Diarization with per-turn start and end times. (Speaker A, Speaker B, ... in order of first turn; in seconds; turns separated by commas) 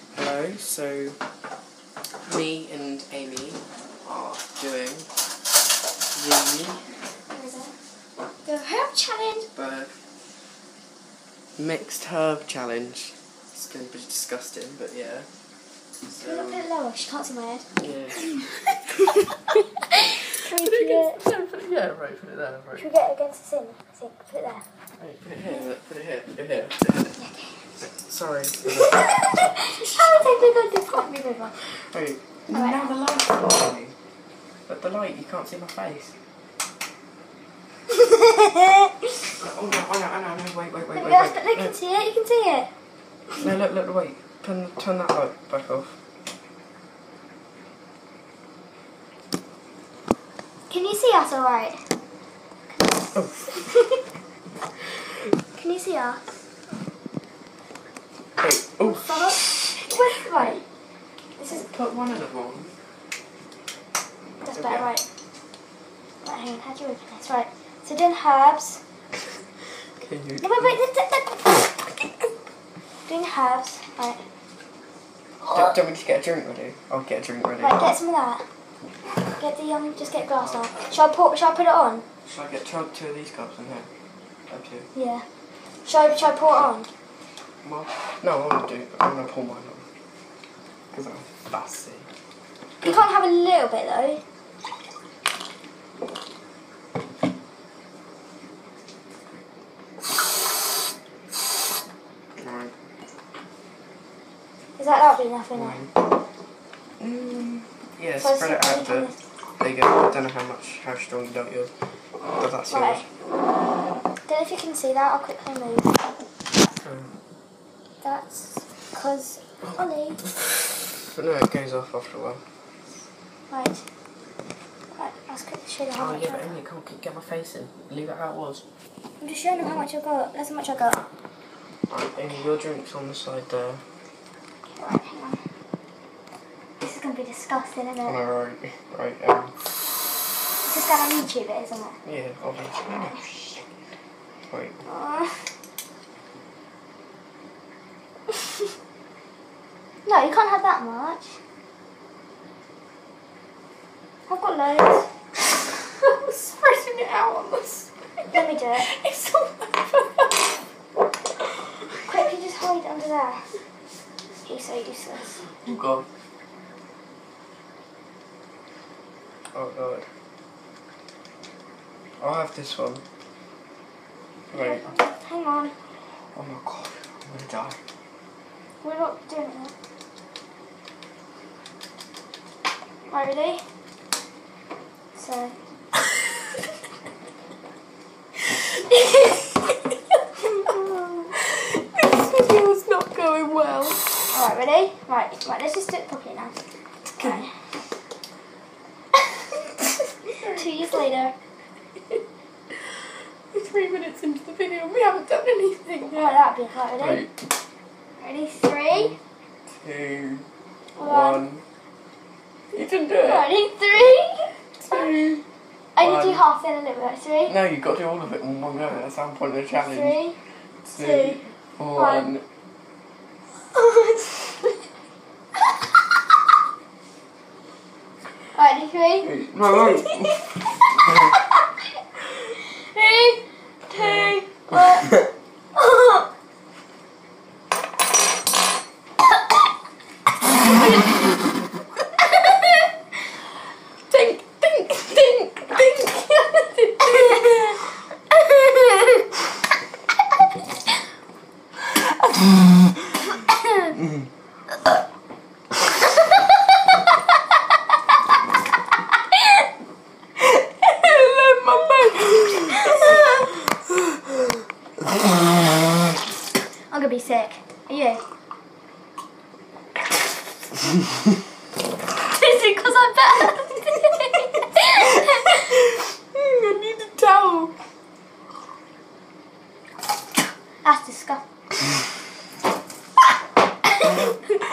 Speaker A: 0.1-1.2, Speaker A: 2.2-5.1, Speaker A: 6.1-6.8, Speaker B: 7.3-7.7, Speaker B: 8.4-9.5, Speaker A: 9.5-10.0, Speaker A: 11.6-15.3, Speaker A: 16.1-16.6, Speaker B: 16.1-17.6, Speaker A: 17.8-18.7, Speaker B: 19.9-21.2, Speaker A: 20.4-22.9, Speaker B: 22.8-24.6, Speaker A: 25.0-27.1, Speaker B: 27.2-27.6, Speaker A: 27.8-30.1, Speaker B: 28.7-31.6, Speaker A: 31.8-33.9, Speaker B: 32.5-33.0, Speaker A: 34.7-36.1, Speaker B: 38.0-38.7, Speaker A: 39.4-41.7, Speaker B: 40.9-42.7, Speaker A: 43.4-46.0, Speaker B: 50.7-51.8, Speaker A: 53.1-53.4, Speaker B: 53.2-54.0, Speaker B: 55.5-56.2, Speaker A: 58.4-60.6, Speaker B: 58.8-60.6, Speaker B: 61.4-61.6, Speaker A: 61.5-62.7, Speaker B: 64.4-65.0, Speaker A: 64.5-64.9, Speaker B: 66.2-68.8, Speaker A: 70.0-70.8, Speaker B: 70.4-71.7, Speaker B: 73.1-74.2, Speaker A: 75.4-77.9, Speaker B: 77.6-78.4, Speaker B: 79.4-82.0, Speaker A: 80.4-80.7, Speaker A: 82.2-83.9, Speaker A: 84.5-84.9, Speaker B: 84.9-85.2, Speaker B: 85.8-86.9, Speaker A: 87.6-89.8, Speaker A: 90.9-92.1, Speaker B: 92.8-94.2, Speaker A: 102.4-102.7, Speaker B: 104.8-105.8, Speaker A: 105.5-105.9, Speaker A: 107.0-111.7, Speaker B: 108.2-109.1, Speaker A: 112.4-113.0, Speaker B: 112.7-113.0, Speaker B: 114.3-116.1, Speaker A: 116.8-117.1, Speaker B: 118.0-120.2, Speaker A: 120.5-122.4, Speaker B: 123.5-123.8, Speaker B: 124.9-126.6, Speaker A: 125.9-128.6, Speaker B: 129.2-131.0, Speaker A: 131.9-133.8, Speaker B: 134.8-135.4, Speaker B: 136.8-138.2, Speaker A: 138.0-139.6, Speaker B: 140.6-141.9, Speaker A: 142.0-143.3, Speaker B: 143.0-143.6, Speaker A: 144.5-144.8, Speaker B: 144.8-145.5, Speaker B: 150.0-151.4, Speaker B: 154.3-155.1, Speaker A: 156.1-157.8, Speaker B: 158.3-158.9, Speaker A: 158.8-159.9, Speaker B: 162.1-163.4, Speaker B: 164.4-165.4, Speaker A: 165.6-166.1, Speaker A: 169.5-170.1, Speaker A: 172.2-173.0, Speaker A: 174.5-174.8, Speaker B: 174.5-175.7, Speaker A: 176.3-177.8, Speaker B: 178.8-179.7, Speaker B: 183.1-183.6, Speaker B: 185.1-185.5, Speaker B: 190.6-191.3, Speaker A: 191.9-194.1, Speaker B: 194.3-196.6, Speaker B: 197.1-197.5, Speaker A: 197.2-197.4, Speaker A: 200.3-201.0, Speaker B: 200.4-201.3, Speaker A: 203.5-206.3, Speaker B: 206.1-207.2, Speaker A: 207.0-207.4, Speaker B: 208.2-209.2, Speaker A: 208.9-209.2, Speaker A: 209.8-210.4, Speaker B: 210.9-211.4, Speaker A: 211.0-211.6, Speaker A: 212.7-213.5, Speaker B: 213.2-214.5, Speaker A: 214.8-215.4, Speaker B: 215.9-217.5, Speaker A: 216.0-216.4, Speaker A: 217.5-220.2, Speaker B: 219.7-220.4, Speaker A: 220.8-222.4, Speaker B: 220.9-221.4, Speaker B: 221.9-222.3, Speaker B: 223.7-224.7, Speaker B: 228.5-230.6, Speaker A: 229.2-230.5, Speaker B: 232.6-235.2, Speaker A: 233.9-234.3, Speaker B: 235.7-236.2, Speaker A: 244.1-247.8, Speaker A: 261.0-263.3, Speaker B: 262.6-263.4, Speaker B: 266.9-268.2, Speaker B: 272.2-275.6, Speaker A: 276.3-277.7, Speaker B: 280.8-281.4, Speaker B: 284.0-284.3